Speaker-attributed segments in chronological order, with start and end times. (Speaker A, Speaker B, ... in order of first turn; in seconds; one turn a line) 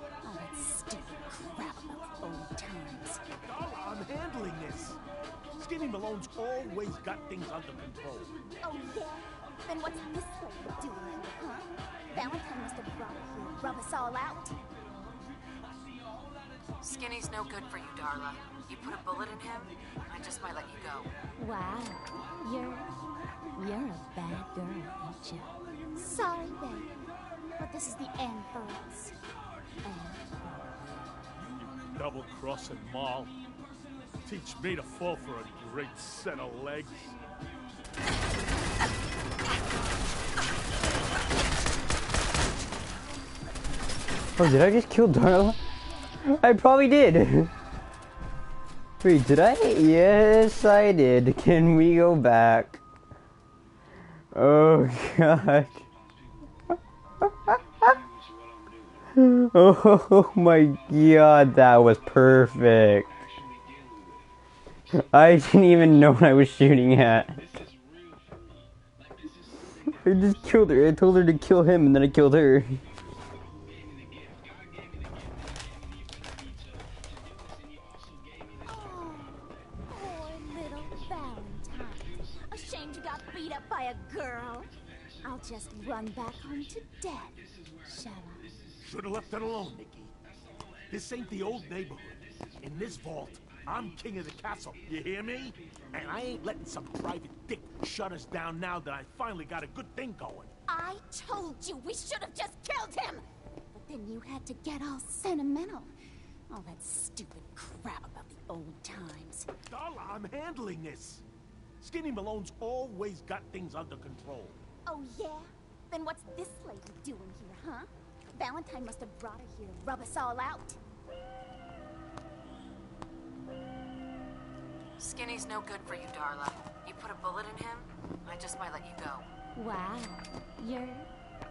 Speaker A: 0.2-3.2
Speaker B: 3.4-5.0
Speaker B: 5.5-8.3
Speaker A: 8.6-14.6
Speaker C: 16.8-21.1
Speaker A: 21.4-22.9
Speaker A: 23.5-26.9
Speaker A: 27.6-29.1
Speaker A: 29.8-30.8
Speaker B: 31.9-33.4
Speaker B: 34.2-37.2
Speaker D: 44.4-45.6
Speaker D: 46.2-47.5
Speaker D: 49.0-52.8
Speaker D: 54.3-55.8
Speaker D: 57.5-58.0
Speaker D: 59.2-63.1
Speaker D: 65.0-67.4
Speaker D: 70.0-72.8
Speaker A: 78.6-84.7
Speaker A: 85.2-88.5
Speaker B: 88.8-90.1
Speaker B: 90.9-100.5
Speaker A: 100.7-105.9
Speaker A: 106.5-109.5
Speaker B: 109.7-111.2
Speaker B: 111.8-114.6
Speaker A: 114.9-120.8
Speaker C: 125.0-129.3
Speaker A: 129.6-131.1